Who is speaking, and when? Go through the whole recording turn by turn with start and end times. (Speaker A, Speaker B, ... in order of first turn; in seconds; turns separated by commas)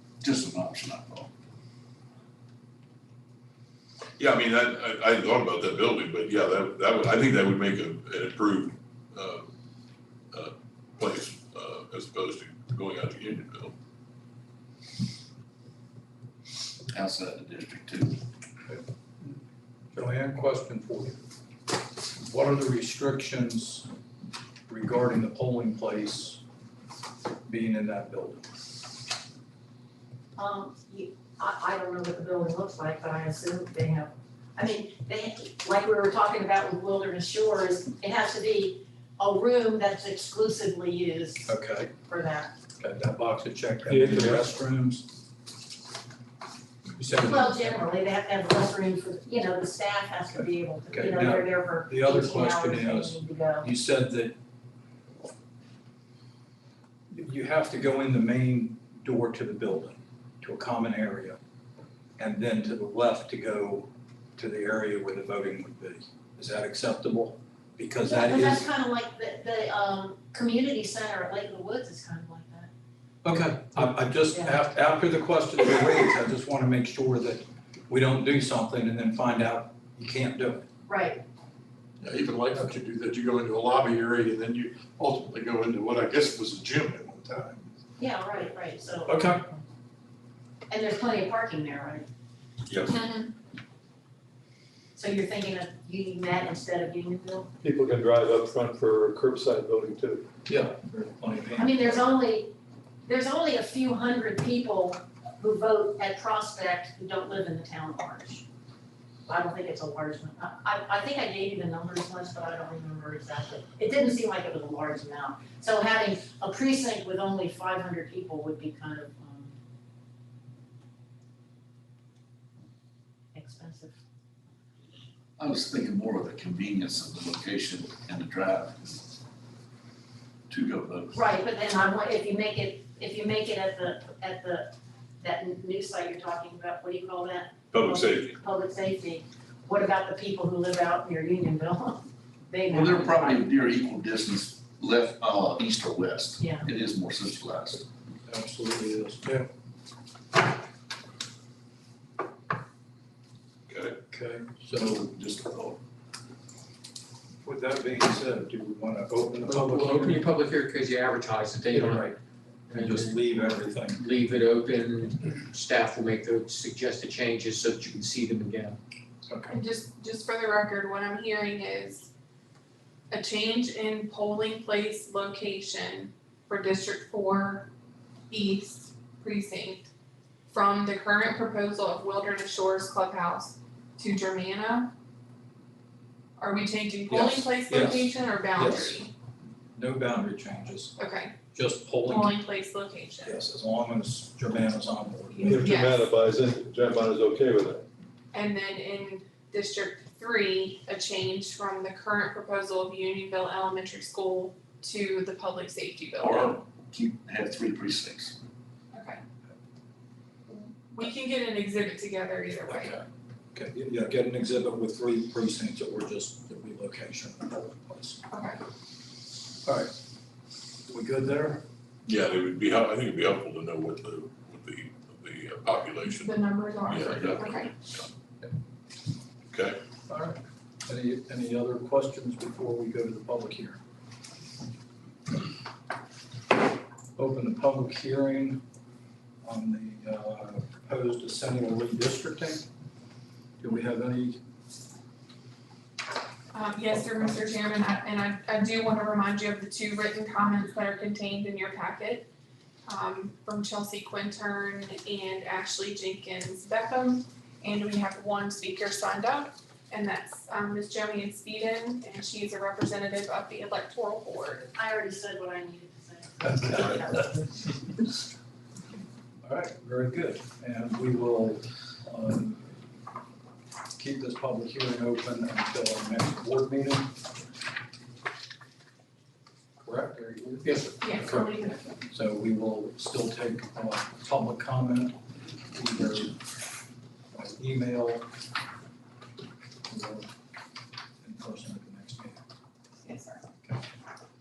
Speaker A: 0.2-1.3, Speaker B: 4.2-9.5, Speaker B: 10.3-13.7, Speaker A: 16.9-18.2, Speaker C: 18.7-19.4, Speaker C: 19.9-21.2, Speaker C: 22.2-23.9, Speaker C: 24.7-26.4, Speaker C: 27.5-28.5, Speaker D: 30.4-41.5, Speaker C: 41.5-41.9, Speaker D: 42.0-42.5, Speaker C: 42.8-45.1, Speaker E: 43.9-44.3, Speaker C: 47.0-47.8, Speaker D: 47.1-53.7, Speaker C: 50.4-54.4, Speaker C: 57.1-61.4, Speaker C: 62.2-68.7, Speaker D: 68.0-72.7, Speaker C: 73.2-80.7, Speaker D: 80.9-81.2, Speaker E: 82.0-87.7, Speaker D: 88.0-89.6, Speaker C: 89.1-89.4, Speaker D: 90.7-92.1, Speaker F: 92.9-93.3, Speaker D: 95.0-97.5, Speaker G: 97.6-100.3, Speaker C: 100.5-102.1, Speaker D: 101.5-102.5, Speaker D: 103.0-108.5, Speaker D: 109.3-119.5, Speaker D: 123.3-124.0, Speaker A: 125.4-129.0, Speaker A: 130.5-131.2, Speaker D: 131.1-143.5, Speaker B: 137.7-138.4, Speaker A: 142.7-147.8, Speaker D: 146.4-146.7, Speaker C: 148.3-149.4, Speaker B: 153.7-154.0, Speaker C: 154.1-155.1, Speaker A: 155.2-155.8, Speaker C: 157.4-160.2, Speaker H: 159.4-162.2, Speaker H: 162.7-163.3, Speaker C: 162.7-164.0, Speaker H: 163.9-168.8, Speaker C: 169.3-169.5, Speaker F: 169.5-172.1, Speaker F: 173.1-177.7, Speaker F: 178.3-179.9, Speaker F: 180.5-184.9, Speaker F: 186.4-189.1, Speaker C: 187.1-189.1, Speaker C: 189.8-190.9, Speaker F: 191.0-191.3, Speaker C: 191.5-192.4, Speaker F: 192.0-193.4, Speaker C: 193.2-195.7, Speaker F: 195.3-196.1, Speaker G: 195.5-197.8, Speaker F: 198.3-206.6, Speaker A: 206.2-208.4, Speaker F: 208.9-209.2, Speaker F: 210.5-213.0, Speaker C: 213.5-218.2, Speaker F: 218.3-218.6, Speaker C: 219.7-219.9, Speaker C: 220.9-221.6, Speaker B: 222.1-228.1, Speaker F: 226.0-227.7, Speaker B: 229.5-229.8, Speaker C: 230.1-233.8, Speaker C: 237.2-238.6, Speaker C: 239.4-242.7, Speaker C: 243.6-244.4, Speaker F: 246.5-252.3, Speaker F: 252.9-264.7, Speaker D: 264.7-267.4, Speaker C: 269.4-272.6, Speaker C: 274.0-277.1, Speaker C: 279.8-280.8, Speaker H: 280.6-281.4, Speaker F: 281.0-282.0, Speaker C: 282.1-285.2, Speaker C: 285.7-286.4, Speaker C: 287.3-288.2, Speaker C: 289.9-290.3, Speaker C: 291.2-292.4, Speaker F: 293.0-293.4